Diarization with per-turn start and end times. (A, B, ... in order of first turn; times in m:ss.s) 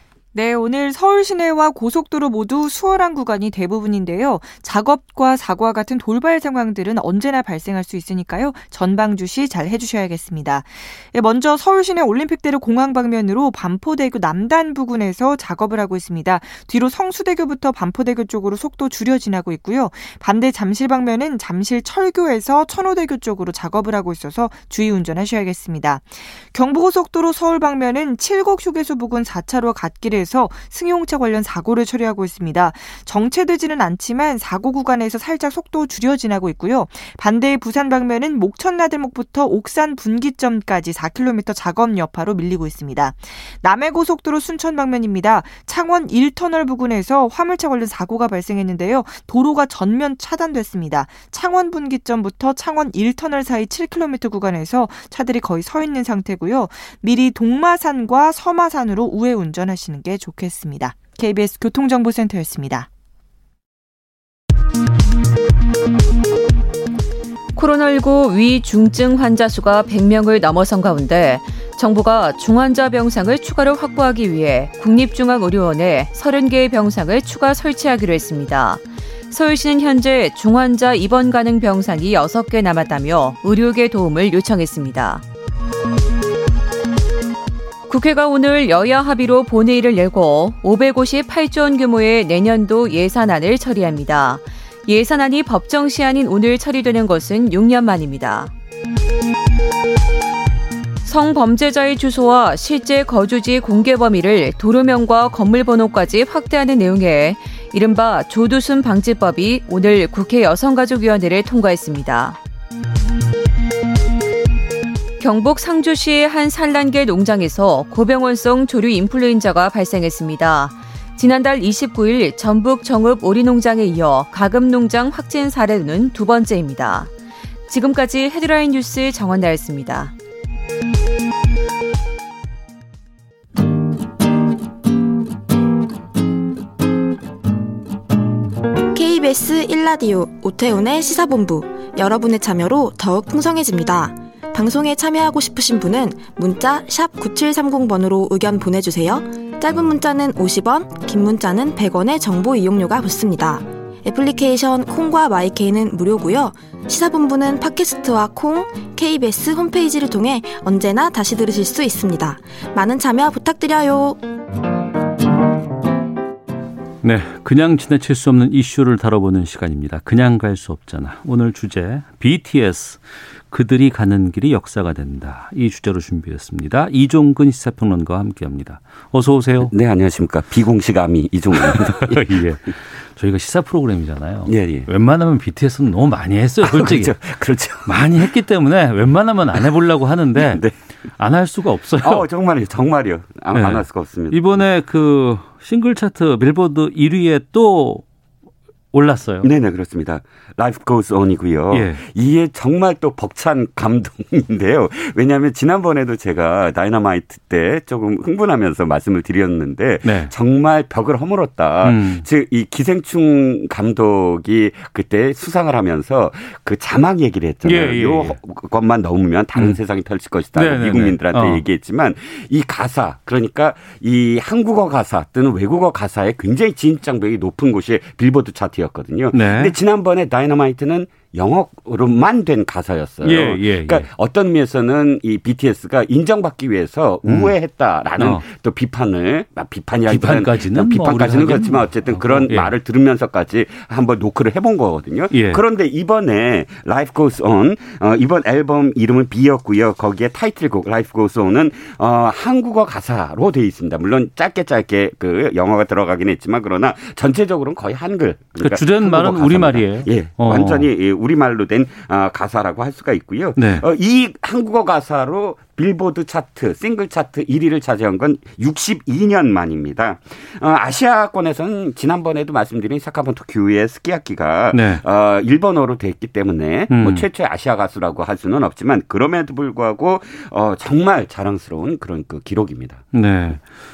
0:00.3-1:02.9 A
1:07.6-1:25.2 B
1:27.9-1:38.5 B
1:41.0-1:52.4 B
1:55.2-2:07.1 B
2:07.7-2:10.1 B
2:18.9-2:44.2 C
2:47.0-2:59.7 D
2:59.6-3:02.6 E
3:01.5-3:07.2 D
3:04.5-3:04.9 E
3:06.6-3:08.3 E
3:07.9-3:10.7 D
3:10.4-3:10.7 E
3:11.2-3:12.3 D
3:12.0-3:14.6 E
3:13.5-3:18.0 D
3:18.9-3:19.5 D
3:19.4-4:43.0 E
3:21.7-3:22.0 D
3:30.0-3:30.3 D
3:31.8-3:32.3 D
3:37.6-3:38.4 D
3:40.6-3:41.6 D
3:49.3-3:49.8 D
3:53.2-3:54.1 D
3:57.3-3:57.5 D
3:58.2-3:58.5 D
4:00.1-4:02.7 D
4:05.3-4:05.6 D
4:18.6-4:20.9 D
4:23.6-4:23.9 D
4:34.7-4:35.0 D
4:36.9-4:37.3 D
4:43.1-4:43.6 D